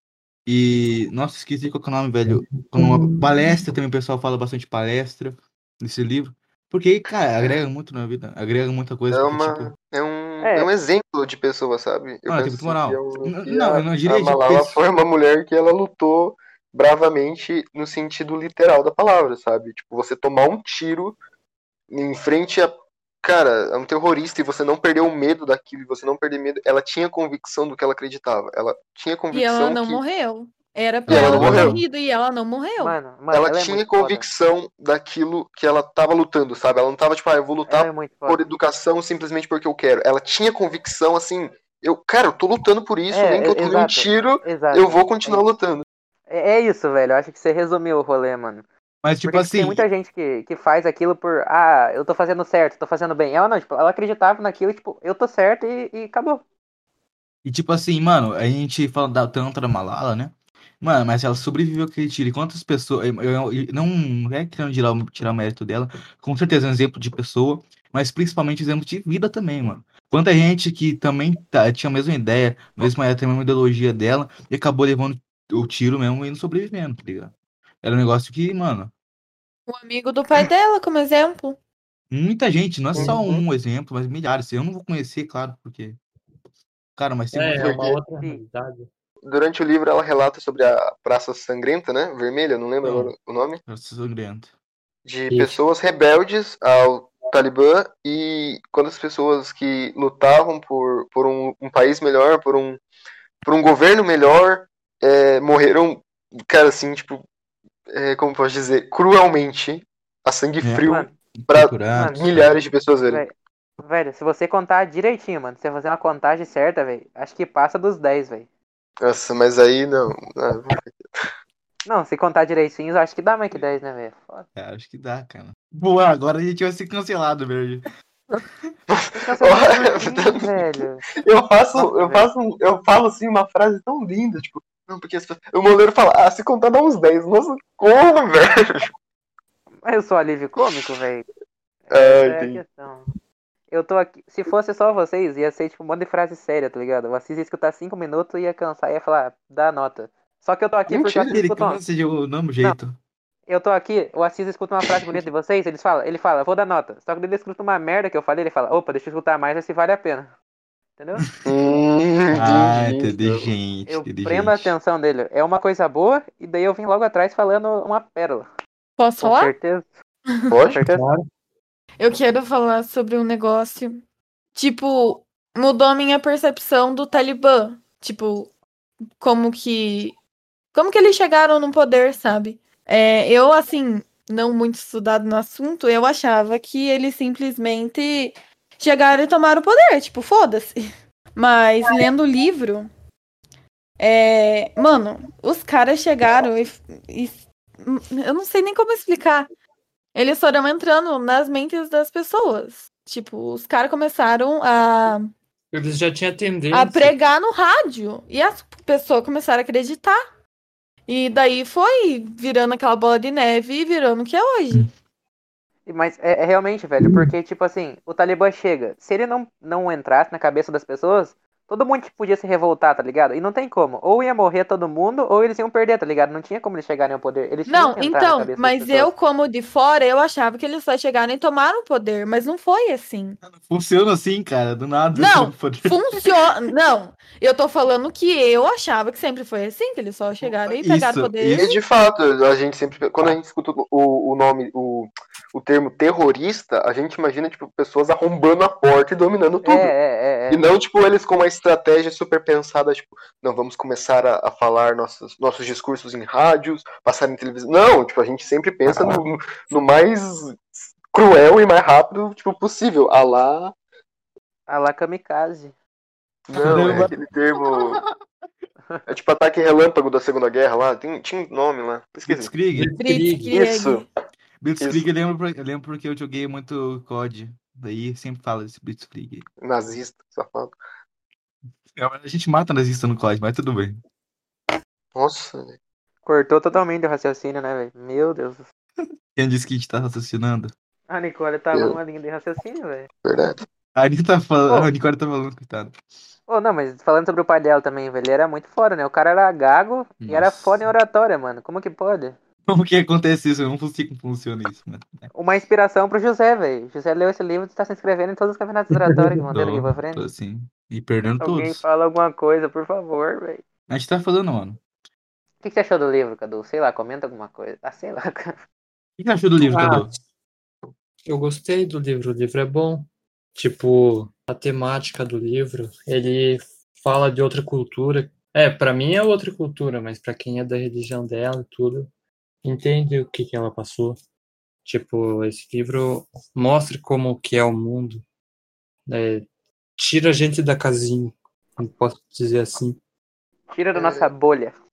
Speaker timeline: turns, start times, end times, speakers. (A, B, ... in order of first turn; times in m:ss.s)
0:00.5-0:09.7 A
0:02.3-0:03.6 B
0:09.1-0:21.2 C
0:10.4-0:10.7 D
0:12.3-0:14.8 A
0:21.9-0:30.0 C
0:29.3-0:33.0 E
0:31.1-0:31.8 A
0:31.1-0:31.8 C
0:32.8-0:34.3 D
0:33.3-0:45.8 C
0:37.7-0:38.4 D
0:43.1-0:45.5 D
0:46.3-0:48.7 D
0:49.0-0:49.8 A
0:49.2-0:56.4 D
0:57.4-1:18.9 A
1:19.7-1:21.6 E
1:22.1-1:26.0 A
1:22.9-1:23.4 C
1:27.0-1:27.8 A
1:27.3-1:28.9 B
1:27.6-1:28.0 C
1:29.2-1:33.6 C
1:32.8-1:33.1 A
1:33.7-1:34.5 A
1:35.0-1:42.8 C
1:35.3-1:35.6 B
1:43.4-1:47.2 C
1:47.9-1:53.2 C
1:50.6-1:50.9 A
1:50.9-1:51.2 D
1:51.4-1:52.4 A
1:53.1-1:58.5 D
1:59.0-2:01.1 C
2:01.9-2:04.5 D
2:04.6-2:07.9 A
2:08.9-2:10.6 C
2:09.1-2:11.1 D
2:11.2-2:18.9 C
2:11.7-2:12.3 D
2:19.8-2:21.3 D
2:21.9-2:23.1 D
2:21.9-2:22.6 C
2:23.7-2:31.8 D
2:30.9-2:31.4 C
2:31.2-2:33.0 A
2:33.5-2:40.3 D
2:41.0-2:41.2 D
2:41.4-2:43.5 C
2:42.3-2:44.7 A
2:43.9-2:48.5 D
2:49.0-2:49.5 E
2:49.2-2:49.9 D
2:50.5-2:50.8 C
2:50.7-2:51.0 D
2:50.8-2:51.2 B
2:52.0-2:54.0 E
2:54.6-2:58.5 E
2:59.2-3:00.2 E
3:00.7-3:10.8 E
3:11.4-3:12.9 E
3:14.0-3:19.5 E
3:20.2-3:25.3 E
3:25.7-3:27.1 B
3:26.7-3:30.2 E
3:31.1-3:34.9 E
3:35.9-3:49.1 D
3:47.7-3:53.4 E
3:53.4-3:56.0 A
3:55.1-4:01.8 E
4:00.7-4:01.7 A
4:01.6-4:09.9 C
4:09.6-4:10.7 D
4:10.5-4:23.8 C
4:24.7-4:25.8 D
4:26.5-4:28.0 C
4:26.6-4:28.1 A
4:29.1-4:32.5 C
4:32.3-4:32.9 A
4:32.8-4:33.5 B
4:33.0-4:34.1 E
4:33.5-4:34.0 C
4:34.6-4:39.5 A
4:34.8-4:35.1 C
4:39.6-4:40.8 C
4:42.0-4:44.0 A
4:45.2-4:45.8 C
4:46.2-4:48.7 D
4:49.4-4:50.7 A
4:51.1-4:53.1 D
4:53.2-4:53.6 C
4:54.0-4:56.0 A
4:56.5-5:02.4 D
5:00.2-5:00.8 A
5:02.7-5:05.3 A
5:05.3-5:10.2 D
5:09.5-5:11.8 A
5:11.4-5:13.6 D
5:13.9-5:14.8 A
5:15.6-5:18.6 D
5:19.2-5:20.1 A
5:19.6-5:20.1 B
5:21.3-5:32.1 B
5:32.6-5:34.2 B
5:34.8-5:38.2 B
5:39.1-5:43.0 B
5:43.7-5:44.8 D
5:43.9-5:44.3 C